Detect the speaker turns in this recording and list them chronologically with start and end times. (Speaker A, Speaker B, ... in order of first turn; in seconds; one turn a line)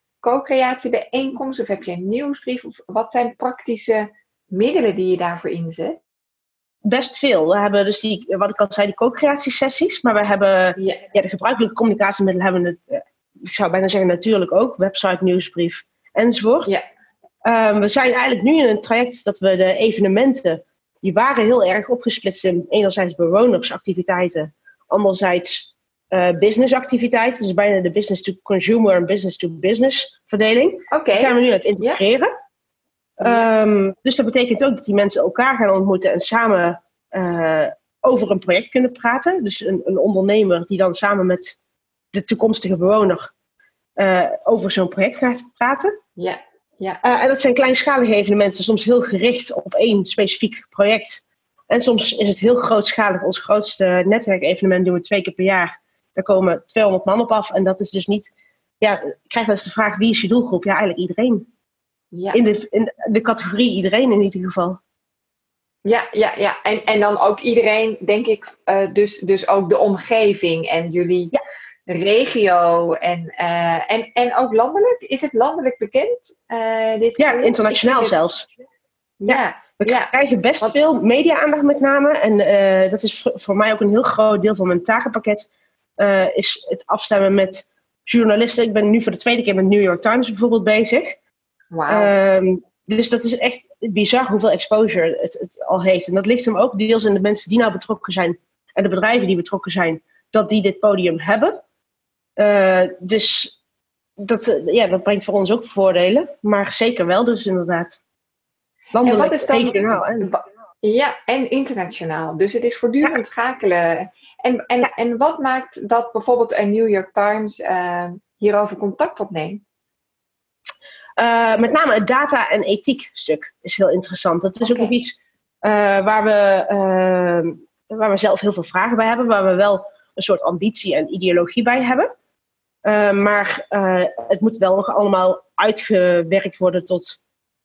Speaker A: 0.2-6.0
Speaker B: 6.8-16.7
Speaker A: 10.8-11.0
Speaker B: 17.4-32.3
Speaker A: 30.9-32.0
Speaker B: 33.2-41.6
Speaker B: 42.1-43.3
Speaker B: 44.0-46.0
Speaker A: 46.2-47.0
Speaker B: 47.0-61.5
Speaker A: 62.1-62.4
Speaker B: 62.3-64.8
Speaker A: 65.8-71.3
Speaker A: 71.9-78.2
Speaker B: 77.2-78.5
Speaker A: 79.2-80.7
Speaker B: 79.3-91.2
Speaker A: 91.7-92.2
Speaker B: 91.9-101.6
Speaker B: 102.4-103.6
Speaker B: 104.2-108.0
Speaker B: 108.9-110.3
Speaker A: 109.0-119.6
Speaker B: 121.2-132.1
Speaker A: 124.6-124.9
Speaker B: 132.8-137.2